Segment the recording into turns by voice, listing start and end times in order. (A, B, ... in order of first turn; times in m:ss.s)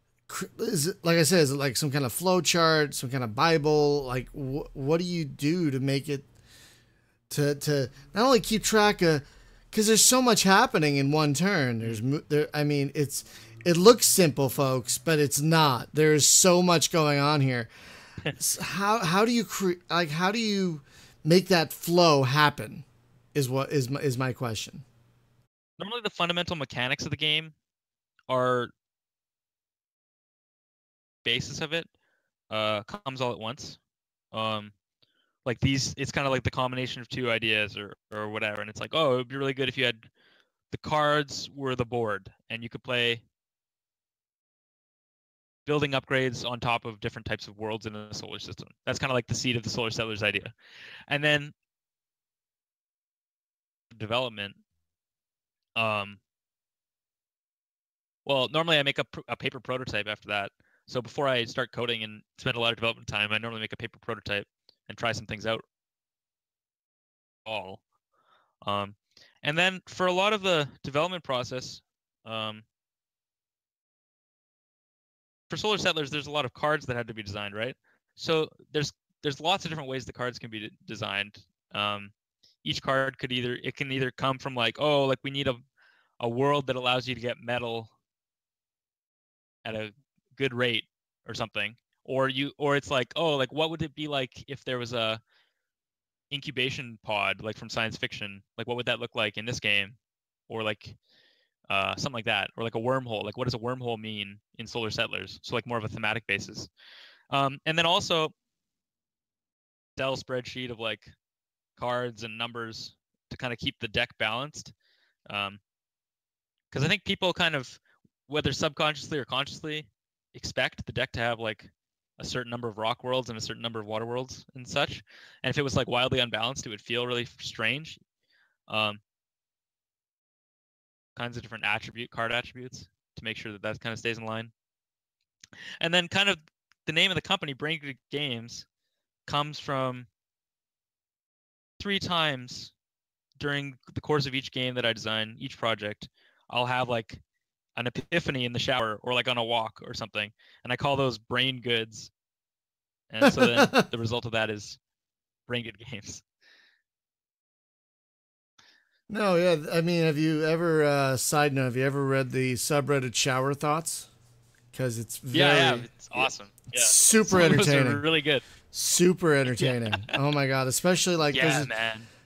0:00.3-0:06.3 A
0:07.3-0:17.7 A
0:18.4-0:24.8 A
0:25.8-0:27.5 B
0:28.3-0:28.7 B
0:31.2-0:31.9 B
0:32.5-0:33.8 B
0:34.3-0:34.7 B
0:35.4-0:40.1 B
0:40.7-0:43.2 B
0:45.7-0:50.5 B
0:51.1-0:51.5 B
0:53.9-0:54.6 B
0:55.8-0:56.2 B
0:58.2-1:05.6 B
1:07.5-1:07.8 B
1:08.6-1:12.6 B
1:15.5-1:22.1 B
1:22.6-1:25.6 B
1:26.2-1:27.9 B
1:29.6-1:35.2 B
1:36.3-1:40.0 B
1:40.5-1:41.0 B
1:41.7-1:46.7 B
1:47.3-1:48.3 B
1:50.0-1:51.1 B
1:51.8-1:54.7 B
1:55.3-1:55.6 B
1:56.7-2:08.0 B
2:08.7-2:09.0 B
2:11.2-2:14.5 B
2:15.8-2:18.7 B
2:19.3-2:20.1 B
2:21.8-2:22.7 B
2:23.4-2:27.2 B
2:27.8-2:32.1 B
2:33.1-2:34.8 B
2:33.2-2:33.8 A
2:35.5-2:36.2 B
2:39.1-2:44.1 A
2:44.7-2:48.0 A
2:45.3-2:48.4 B
2:48.7-2:51.7 A
2:49.5-2:50.2 B
2:51.3-2:52.1 B